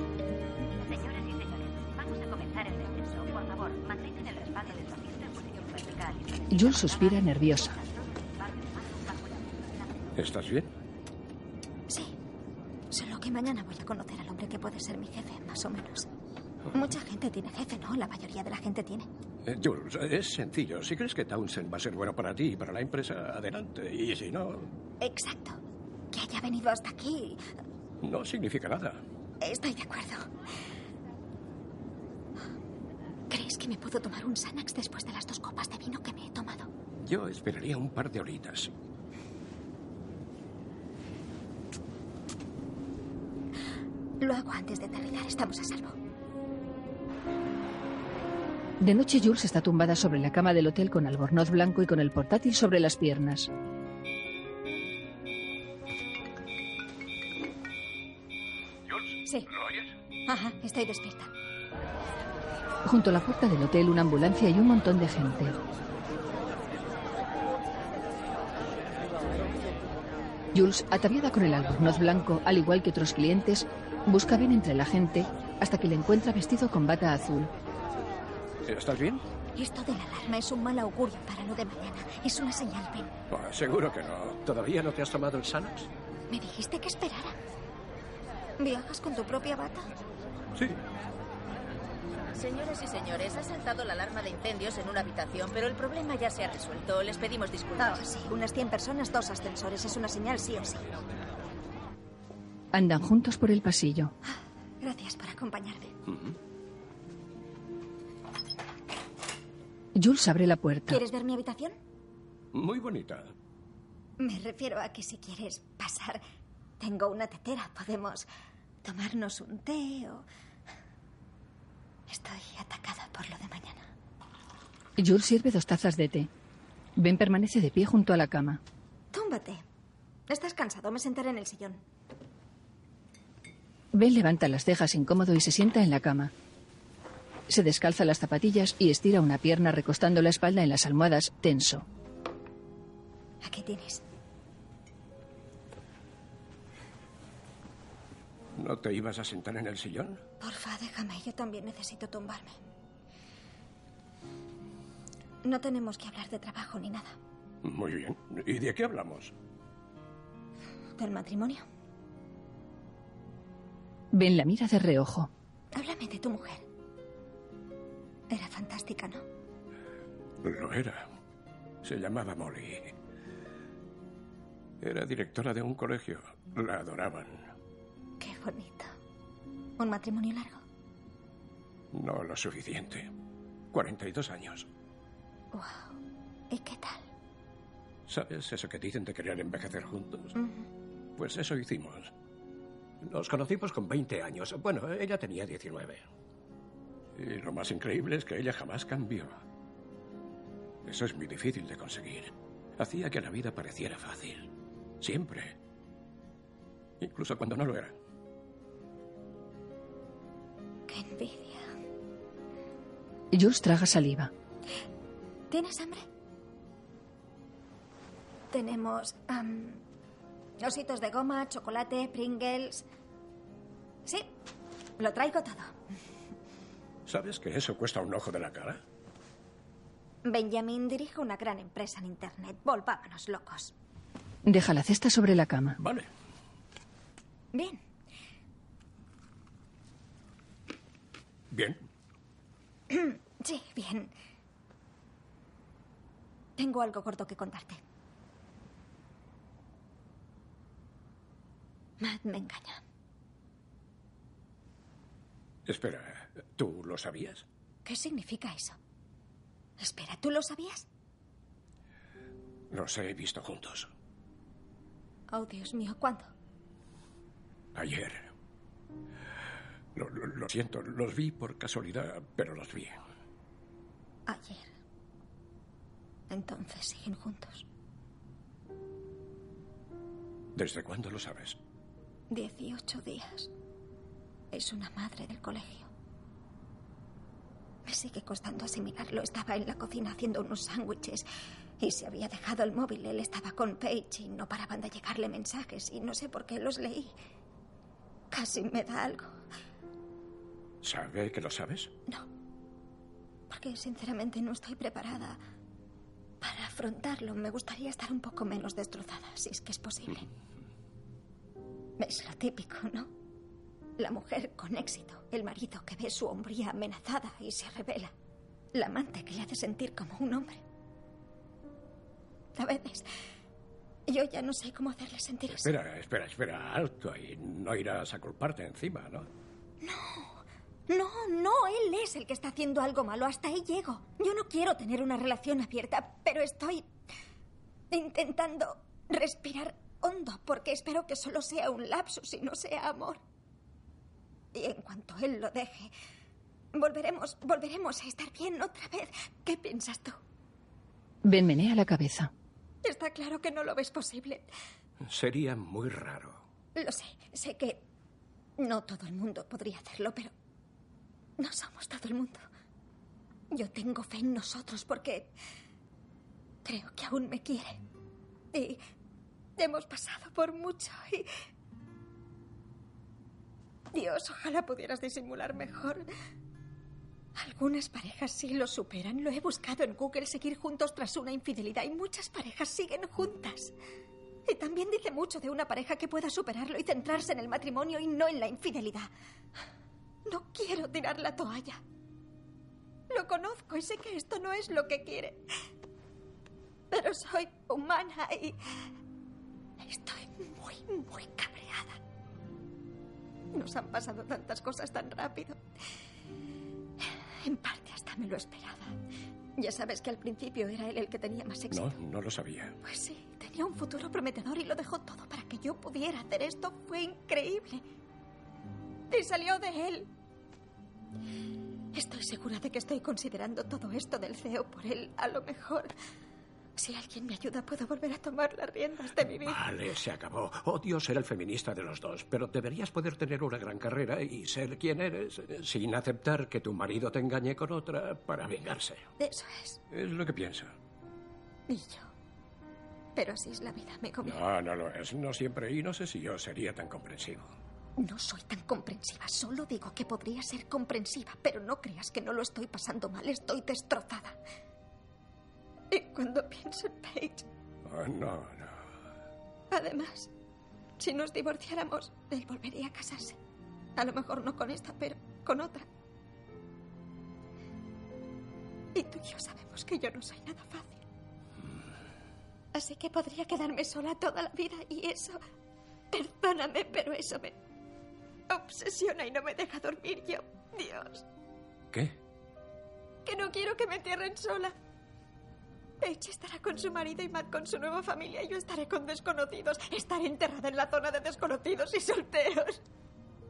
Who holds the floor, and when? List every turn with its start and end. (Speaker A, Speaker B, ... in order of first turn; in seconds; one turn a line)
Speaker A: 0.8-9.4
Speaker B: 6.5-7.8
Speaker C: 10.2-10.7
Speaker D: 11.9-12.2
Speaker D: 12.9-16.1
Speaker D: 16.7-19.1
Speaker C: 19.5-24.7
Speaker D: 25.0-25.6
Speaker D: 26.1-27.4
Speaker C: 28.0-29.0
Speaker D: 29.4-30.3
Speaker D: 33.3-36.7
Speaker C: 37.0-38.7
Speaker D: 44.2-46.0
Speaker B: 48.8-53.5
Speaker C: 58.9-59.9
Speaker D: 60.3-61.3
Speaker B: 62.9-65.6
Speaker B: 70.5-77.5
Speaker C: 78.7-79.2
Speaker D: 79.6-83.1
Speaker C: 83.3-85.9
Speaker D: 86.3-87.4
Speaker D: 88.6-89.9
Speaker C: 90.5-90.8
Speaker E: 92.4-98.0
Speaker D: 97.8-100.8
Speaker B: 102.7-104.1
Speaker D: 104.2-105.9
Speaker C: 106.1-106.3
Speaker B: 110.0-111.0
Speaker D: 110.9-111.8
Speaker C: 112.5-113.3
Speaker D: 114.2-116.2
Speaker D: 116.8-118.3
Speaker D: 118.8-120.3
Speaker D: 122.1-123.9
Speaker B: 125.0-126.3
Speaker B: 127.0-128.6
Speaker D: 129.1-129.6
Speaker D: 130.3-131.8
Speaker B: 133.9-136.3
Speaker B: 137.5-141.8
Speaker D: 143.4-144.0
Speaker C: 148.6-150.2
Speaker D: 150.4-152.6
Speaker D: 155.4-157.2
Speaker C: 157.6-159.3
Speaker D: 161.0-161.6
Speaker B: 164.1-165.3
Speaker D: 165.7-166.7
Speaker D: 168.3-169.2
Speaker C: 170.4-171.1
Speaker C: 171.8-173.0
Speaker C: 174.8-177.5
Speaker D: 178.2-178.9
Speaker D: 179.8-180.6
Speaker C: 181.9-183.1
Speaker C: 183.7-184.7
Speaker D: 185.5-185.9
Speaker D: 186.5-187.1
Speaker C: 188.1-190.3
Speaker D: 190.4-190.7
Speaker C: 191.2-192.1
Speaker C: 193.0-196.1
Speaker C: 197.2-199.4
Speaker C: 200.8-204.5
Speaker C: 205.0-205.6
Speaker C: 207.0-207.9
Speaker D: 210.9-211.7
Speaker B: 213.3-214.3
Speaker D: 215.5-216.1
Speaker D: 218.5-219.8
Speaker D: 220.6-222.8
Speaker D: 224.1-224.3
Speaker D: 225.0-225.8
Speaker C: 227.1-228.8
Speaker D: 230.2-233.7
Speaker B: 234.5-235.8
Speaker C: 235.8-236.1
Speaker D: 237.5-237.8
Speaker C: 241.5-241.8
Speaker D: 242.9-244.1
Speaker D: 246.6-247.8
Speaker D: 252.0-252.8
Speaker C: 255.7-257.4
Speaker D: 257.9-258.8
Speaker D: 259.8-260.9
Speaker C: 262.7-263.9
Speaker D: 265.3-266.3
Speaker C: 267.8-268.2
Speaker C: 269.9-273.0
Speaker D: 274.3-274.7
Speaker D: 276.3-277.7
Speaker C: 280.6-281.6
Speaker D: 282.3-283.5
Speaker D: 284.5-285.9
Speaker D: 287.9-291.3
Speaker D: 291.8-297.1
Speaker D: 298.3-299.3
Speaker C: 300.8-301.9
Speaker D: 303.5-305.4
Speaker D: 306.4-310.3
Speaker D: 312.0-313.1
Speaker D: 314.0-318.1
Speaker D: 318.7-320.6
Speaker D: 322.6-323.1
Speaker D: 324.1-325.7
Speaker C: 325.5-329.3
Speaker D: 329.8-336.9
Speaker D: 337.9-343.2
Speaker D: 344.5-345.9
Speaker D: 346.8-350.2
Speaker B: 351.2-352.3
Speaker D: 352.8-354.5
Speaker C: 355.0-356.4
Speaker D: 356.8-357.8
Speaker D: 358.6-360.3
Speaker D: 361.4-362.4
Speaker D: 363.5-365.3
Speaker D: 366.6-367.8
Speaker D: 368.5-368.8
Speaker D: 369.6-371.3
Speaker D: 373.9-376.1
Speaker D: 377.4-383.8
Speaker D: 384.5-389.1
Speaker D: 390.3-391.8
Speaker D: 393.1-395.4
Speaker D: 396.9-398.6
Speaker D: 399.8-402.0
Speaker D: 403.5-405.6
Speaker D: 407.4-409.0
Speaker D: 409.6-411.9
Speaker C: 411.7-412.8
Speaker D: 412.8-417.8
Speaker D: 419.1-420.1
Speaker D: 421.9-425.9
Speaker D: 426.8-429.6
Speaker C: 429.4-439.0
Speaker D: 439.2-439.8
Speaker C: 439.9-440.8
Speaker D: 441.7-442.1
Speaker D: 443.2-444.4
Speaker C: 444.2-447.5
Speaker D: 448.0-454.4
Speaker D: 455.9-457.5
Speaker C: 457.9-458.9
Speaker D: 459.7-460.3
Speaker D: 461.0-463.4
Speaker D: 464.0-465.9
Speaker D: 468.9-471.0
Speaker D: 472.7-475.4
Speaker D: 476.1-477.6
Speaker D: 478.5-481.2
Speaker D: 483.2-484.8
Speaker D: 486.0-492.8